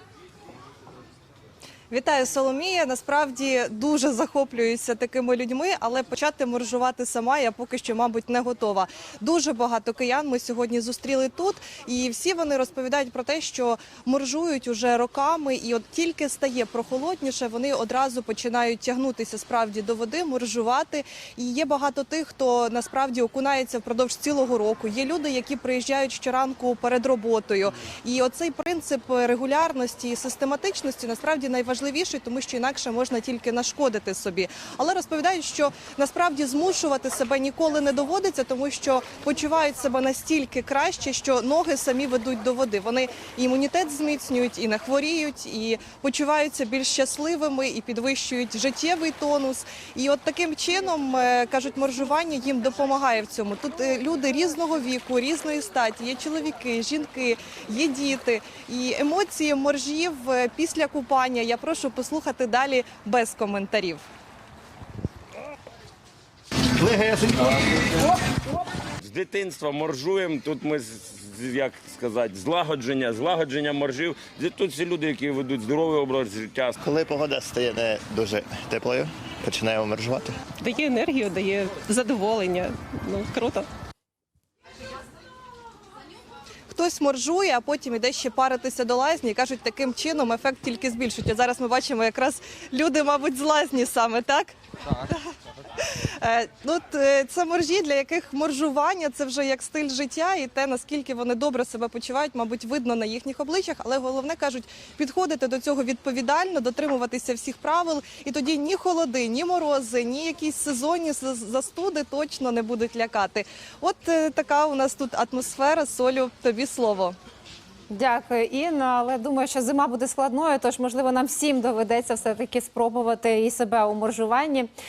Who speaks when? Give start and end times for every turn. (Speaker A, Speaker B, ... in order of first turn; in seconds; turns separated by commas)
Speaker A: 1.9-64.0, Speaker B: 66.8-67.6, Speaker C: 69.0-76.8, Speaker B: 76.8-80.3, Speaker D: 80.6-83.7, Speaker A: 86.7-95.2, Speaker A: 95.8-117.2, Speaker E: 117.9-124.7